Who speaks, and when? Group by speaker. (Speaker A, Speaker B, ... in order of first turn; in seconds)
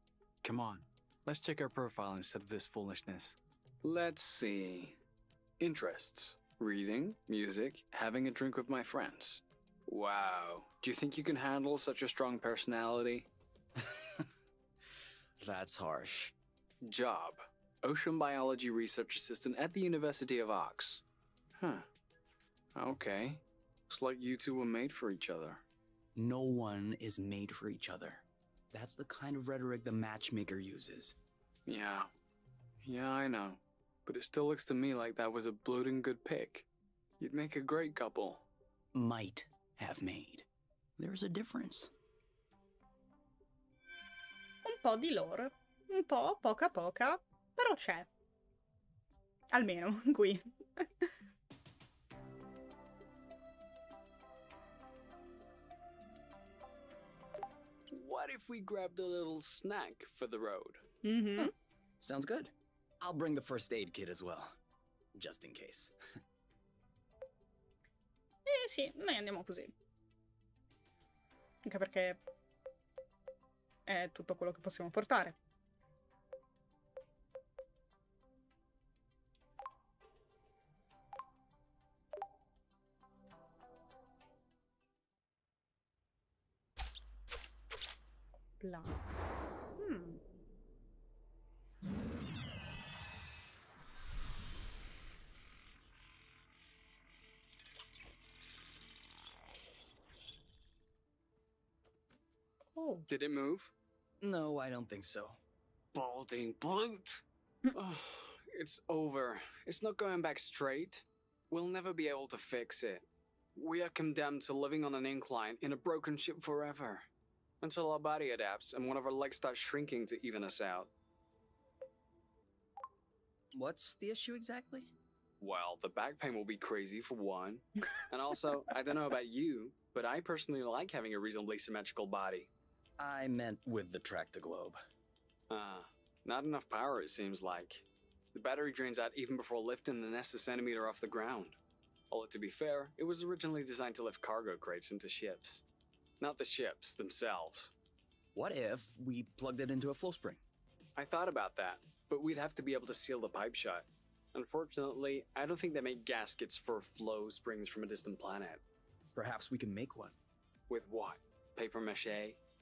Speaker A: 0.4-5.0, 5.6-13.3, 16.8-21.0, 21.6-21.9, 22.8-25.6, 31.7-32.1, 32.8-36.7, 37.2-38.5, 57.9-60.8, 103.1-103.7, 105.9-117.1, 117.6-120.9, 125.4-132.5, 135.5-141.6, 142.1-145.6, 146.2-147.7, 151.0-158.6, 160.7-162.4
Speaker B: 13.8-14.3, 15.4-16.3, 26.1-31.2, 39.0-40.5, 41.0-41.9, 62.0-64.6, 65.1-66.0, 104.2-105.4, 123.5-124.9, 133.0-134.8, 148.3-150.4, 159.2-160.2
Speaker C: 44.6-48.1, 49.5-51.1, 61.0-61.5, 68.5-69.8, 71.7-72.2, 73.9-75.4, 88.6-89.0, 89.8-90.2, 102.8-103.1